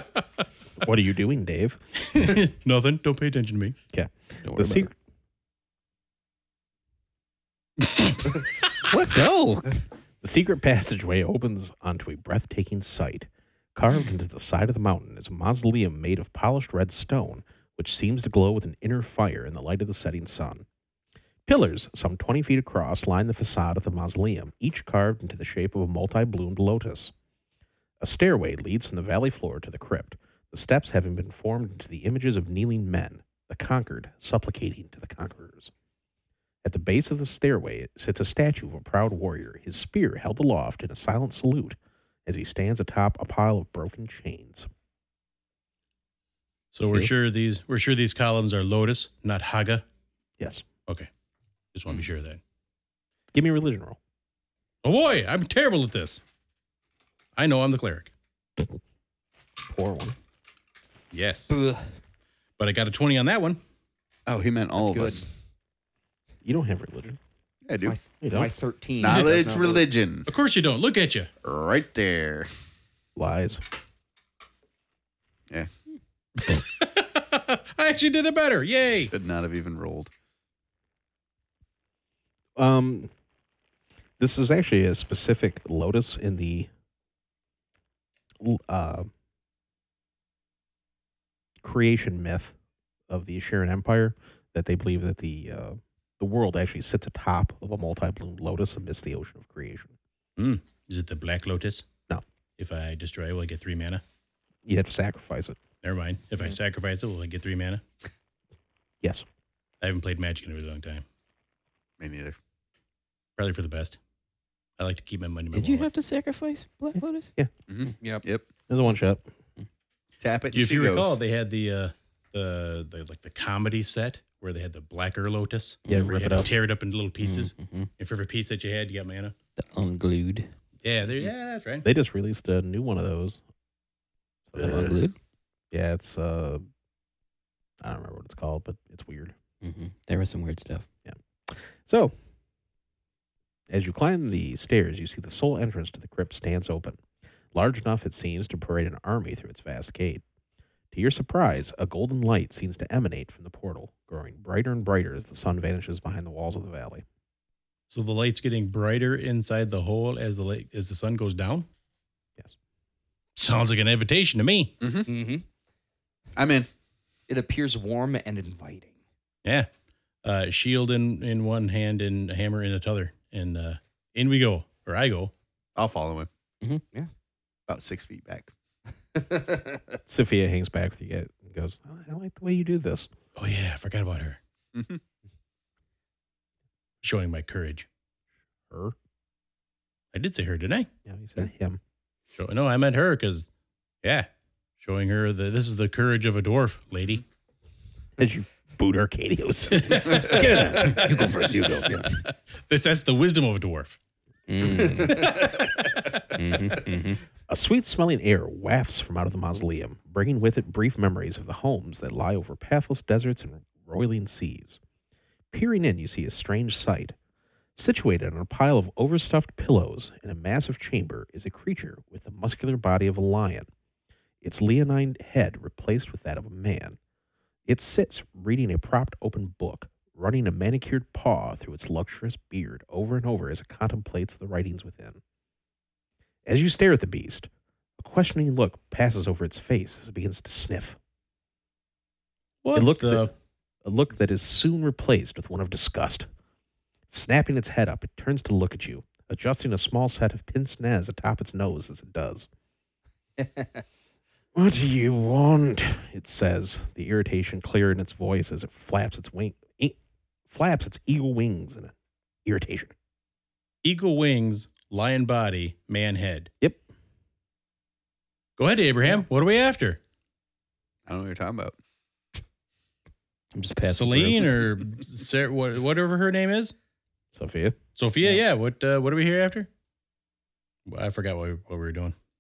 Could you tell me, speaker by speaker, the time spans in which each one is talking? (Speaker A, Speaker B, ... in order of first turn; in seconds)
Speaker A: 0.8-1.8, 3.9-4.9, 10.2-20.6, 21.5-27.1, 28.0-35.7, 36.6-44.7, 50.4-50.6, 53.3-54.0, 59.6-60.2, 66.5-67.2, 68.2-68.5, 73.2-73.6, 82.6-83.1, 84.2-86.7, 88.4-89.1, 91.6-92.6, 93.1-100.0, 104.6-105.6, 109.0-109.2, 118.7-119.2, 125.9-126.5, 131.8-133.4, 134.5-134.9, 135.7-136.6, 137.8-139.3, 141.1-142.1, 143.7-147.0, 147.5-150.2, 150.9-157.1, 180.1-183.1, 188.7-188.9, 191.1-191.8, 198.2-202.0, 207.5-214.8, 215.5-217.2, 217.8-223.7, 224.4-227.0, 227.7-235.2, 236.5-241.0, 242.7-243.3, 243.8-246.3, 247.1-252.5, 254.6-260.0, 260.5-261.9, 262.4-262.9, 277.3-277.8
Speaker B: 2.1-3.8, 46.7-49.8, 51.7-52.4, 54.8-56.2, 57.4-58.1, 61.1-61.5, 62.6-63.6, 70.3-71.3, 76.4-79.1, 100.4-101.9, 102.6-104.0, 105.8-107.8, 109.8-111.0, 113.4-114.0, 114.8-115.9, 120.5-129.3, 130.8-131.8, 157.9-161.7, 163.4-164.7, 170.2-175.3, 183.4-184.4, 187.0-187.9, 190.1-190.9, 192.4-193.5, 194.8-197.2, 199.8-200.2, 202.1-204.0, 242.6-243.3, 263.8-266.5, 268.6-270.0, 273.9-276.7, 278.0-279.7, 280.9-282.1
Speaker C: 4.5-4.9, 8.8-9.8, 115.5-117.3, 125.9-126.1, 127.2-127.9, 129.6-130.5, 134.6-135.2, 139.6-140.9, 200.8-202.2, 204.5-205.4, 206.3-207.2, 273.5-274.6
Speaker D: 61.5-61.8, 64.8-65.3, 67.8-69.9, 165.1-165.4, 167.3-168.9, 179.1-179.8, 205.0-205.5, 253.4-253.8
Speaker E: 64.2-65.2, 67.7-68.0, 69.0-70.3, 71.4-72.5, 79.1-80.1, 112.0-112.4, 117.7-118.5, 120.2-121.2, 164.8-165.1, 166.4-166.7, 175.8-176.3, 177.7-178.5, 184.7-185.0, 271.1-271.8